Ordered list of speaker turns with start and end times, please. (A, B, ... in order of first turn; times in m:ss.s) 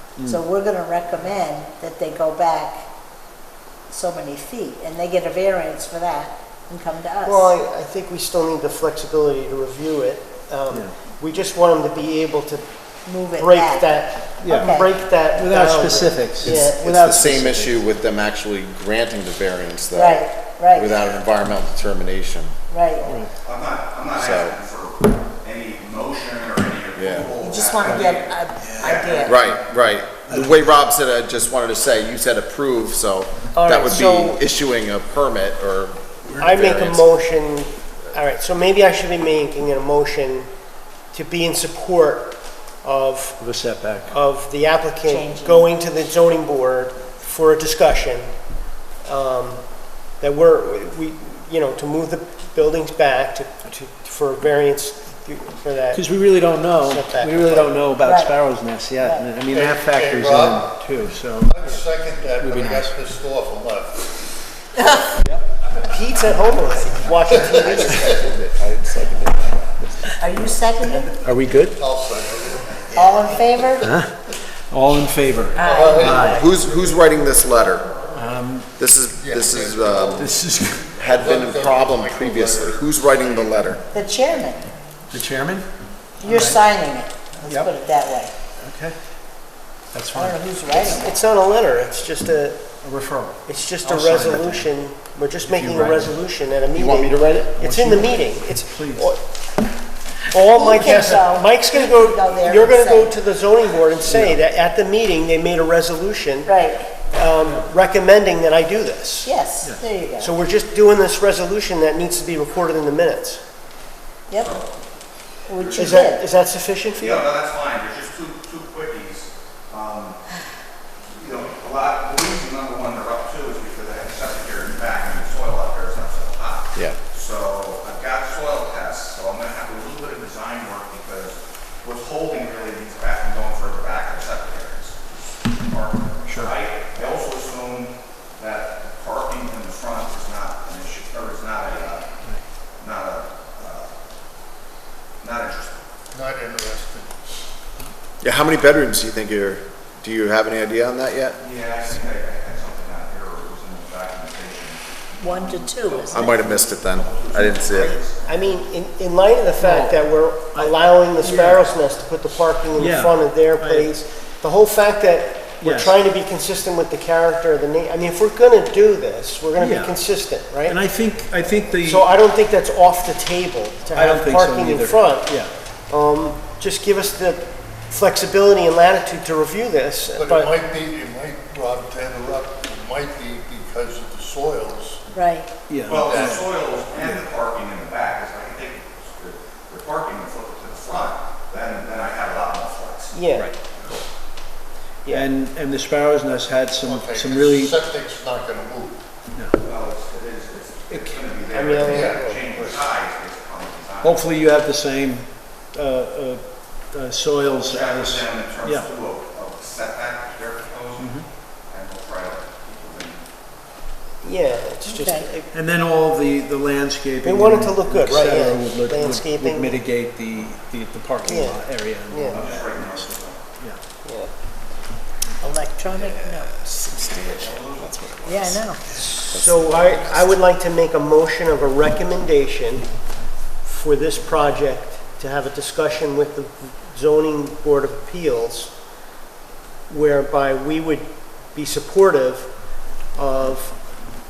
0:00.2-0:00.4 A
0:00.2-0:02.8 B
0:03.9-0:07.5 B
0:07.2-0:12.7 C
0:13.0-0:14.0 B
0:13.4-0:16.9 C
0:14.4-0:14.7 A
0:14.6-0:14.9 B
0:15.4-0:17.8 A
0:16.5-0:22.5 D
0:19.9-0:20.9 B
0:22.7-0:23.2 B
0:23.0-0:23.3 A
0:23.4-0:29.3 E
0:24.2-0:24.6 D
0:27.0-0:27.3 D
0:27.4-0:29.5 B
0:28.6-0:29.0 A
0:29.2-0:37.0 D
0:33.5-0:34.4 C
0:36.4-0:40.5 C
0:41.1-0:43.4 C
0:43.4-0:44.1 A
0:44.1-0:48.3 C
0:45.1-0:45.7 B
0:49.0-0:56.1 C
0:55.9-1:01.6 A
0:56.6-0:57.8 C
0:58.0-0:58.4 B
0:59.0-0:59.3 B
0:59.5-1:00.8 F
1:01.3-1:04.1 F
1:02.4-1:02.9 A
1:04.8-1:05.2 B
1:05.8-1:08.2 C
1:07.5-1:09.7 D
1:10.2-1:11.1 B
1:11.1-1:11.8 A
1:11.7-1:13.2 F
1:12.9-1:13.9 B
1:13.8-1:14.1 A
1:14.7-1:16.4 A
1:15.5-1:16.3 B
1:15.6-1:18.0 F
1:16.2-1:17.9 D
1:18.1-1:18.7 A
1:18.8-1:20.3 D
1:19.2-1:20.3 F
1:20.2-1:21.0 A
1:20.9-1:23.8 F
1:21.0-1:23.8 D
1:23.9-1:24.7 B
1:25.1-1:25.7 A
1:26.2-1:28.3 B
1:26.2-1:26.6 A
1:27.4-1:27.7 A
1:28.6-1:29.0 A
1:29.9-1:30.4 A
1:30.1-1:31.1 B
1:30.7-1:32.7 C
1:32.8-1:34.7 A
1:33.4-1:39.2 C
1:35.4-1:36.1 A
1:36.7-1:37.6 D
1:37.6-1:38.1 A
1:38.7-1:39.1 A
1:40.3-1:49.3 C
1:40.5-1:43.2 B
1:44.1-1:44.4 A
1:46.4-1:46.9 B
1:49.2-1:50.3 B
1:50.2-1:53.4 C
1:54.3-1:54.6 B
1:54.3-1:54.6 E
1:55.5-1:56.2 B
1:55.6-1:56.1 E
1:55.8-1:57.3 C
1:57.0-2:00.2 E
2:01.1-2:22.1 E
2:22.8-2:23.9 E
2:25.2-2:25.8 E
2:26.1-2:27.4 F
2:28.2-2:31.4 D
2:31.4-2:38.3 E
2:35.2-2:36.3 B
2:36.1-2:38.0 D
2:38.2-2:50.8 C
2:39.6-2:40.0 A
2:40.5-2:41.6 A
2:42.8-2:43.9 A
2:45.6-2:45.9 A
2:49.6-2:50.0 A
2:50.6-2:52.0 A
2:51.8-2:55.3 C
2:53.9-2:55.5 A
2:55.9-3:00.5 C
3:00.1-3:05.0 F
3:05.1-3:05.5 B
3:05.7-3:07.2 A
3:05.8-3:14.0 E
3:06.0-3:06.4 F
3:13.1-3:13.5 C
3:15.1-3:17.7 A
3:16.8-3:19.0 F
3:19.6-3:24.3 E
3:20.9-3:21.2 A
3:21.5-3:22.5 C
3:21.8-3:22.8 F
3:24.0-3:28.9 A
3:27.6-3:33.2 E
3:31.0-3:31.2 A
3:34.2-3:35.5 C
3:34.8-3:35.3 B
3:35.5-3:43.0 A
3:37.2-3:39.8 C
3:41.2-3:42.4 C
3:42.3-3:43.4 E
3:44.0-3:44.3 C
3:45.4-3:46.5 B
3:46.0-3:48.5 D
3:47.0-3:48.5 E
3:48.2-3:48.8 B
3:48.9-3:52.9 C
3:49.3-3:50.2 D
3:53.6-3:58.8 C
3:59.9-4:03.8 C